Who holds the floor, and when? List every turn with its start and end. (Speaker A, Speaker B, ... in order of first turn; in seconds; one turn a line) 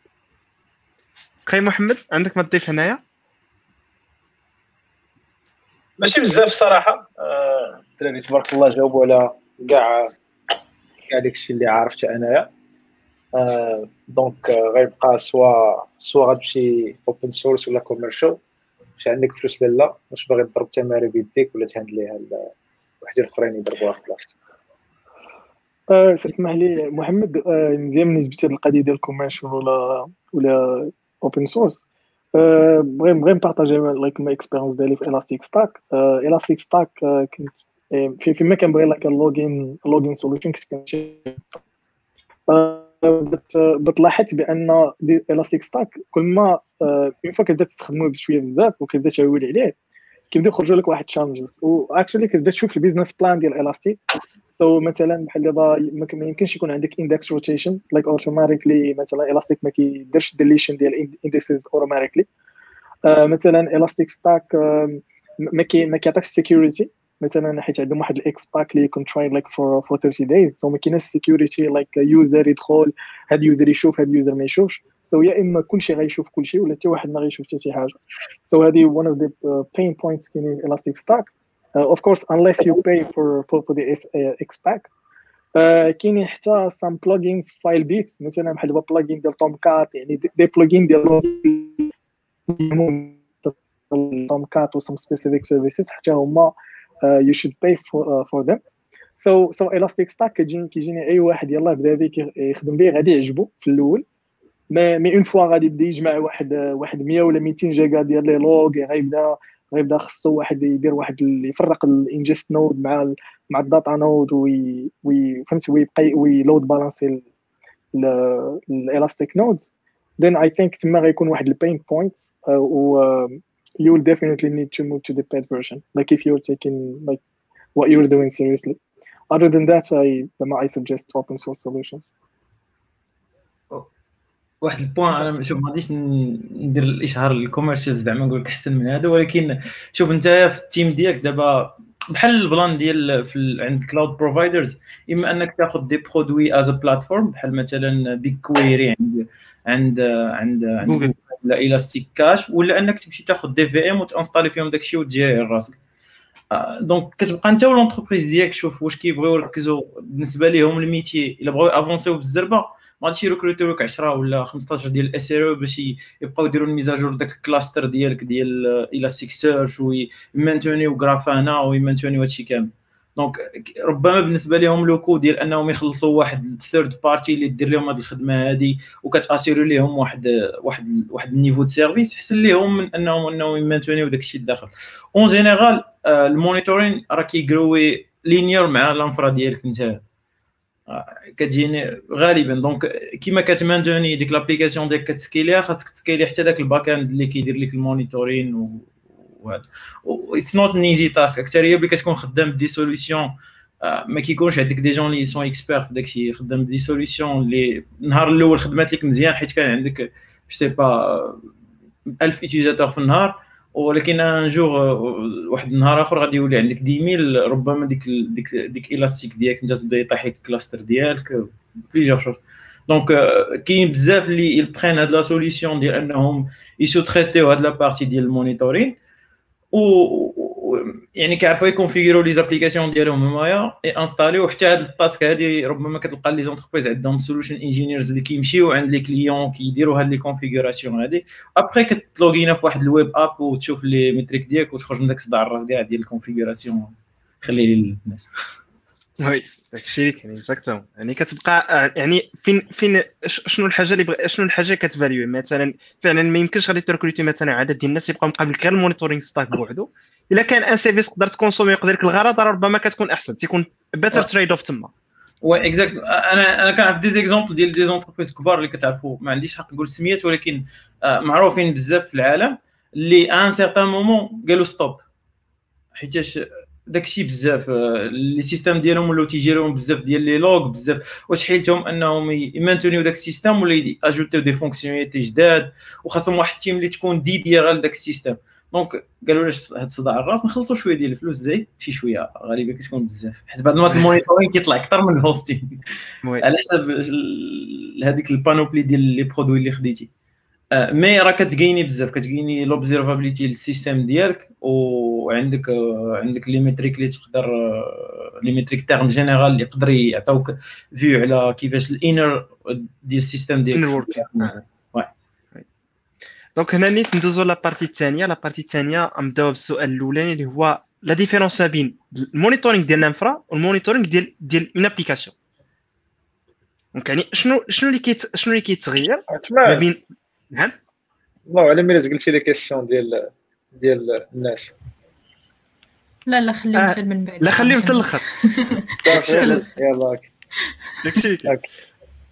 Speaker A: 1.4-3.0
Speaker B: 6.0-10.1
Speaker B: 11.1-12.5
Speaker B: 13.3-18.4
Speaker B: 19.0-22.5
Speaker B: 23.0-24.3
Speaker C: 25.9-41.6
Speaker C: 42.5-49.7
Speaker C: 50.3-54.0
Speaker C: 54.5-62.3
Speaker C: 63.0-84.9
Speaker C: 85.5-91.9
Speaker C: 92.5-98.6
Speaker C: 99.2-104.0
Speaker C: 104.7-117.2
Speaker C: 117.9-127.2
Speaker C: 127.8-128.8
Speaker C: 129.3-132.1
Speaker D: 134.6-155.8
Speaker A: 150.8-151.1
Speaker D: 156.5-190.0
Speaker D: 190.9-211.4
Speaker D: 212.2-228.9
Speaker D: 229.7-248.3
Speaker A: 249.2-264.9
Speaker D: 265.4-275.0
Speaker D: 275.9-295.8
Speaker D: 296.4-300.1
Speaker D: 300.7-315.1
Speaker A: 313.7-314.5
Speaker A: 316.6-325.3
Speaker A: 326.9-330.0
Speaker B: 329.3-329.8
Speaker B: 331.5-334.7
Speaker E: 336.3-339.7
Speaker A: 336.7-338.2
Speaker B: 339.0-340.3
Speaker A: 339.1-339.6
Speaker A: 341.0-341.5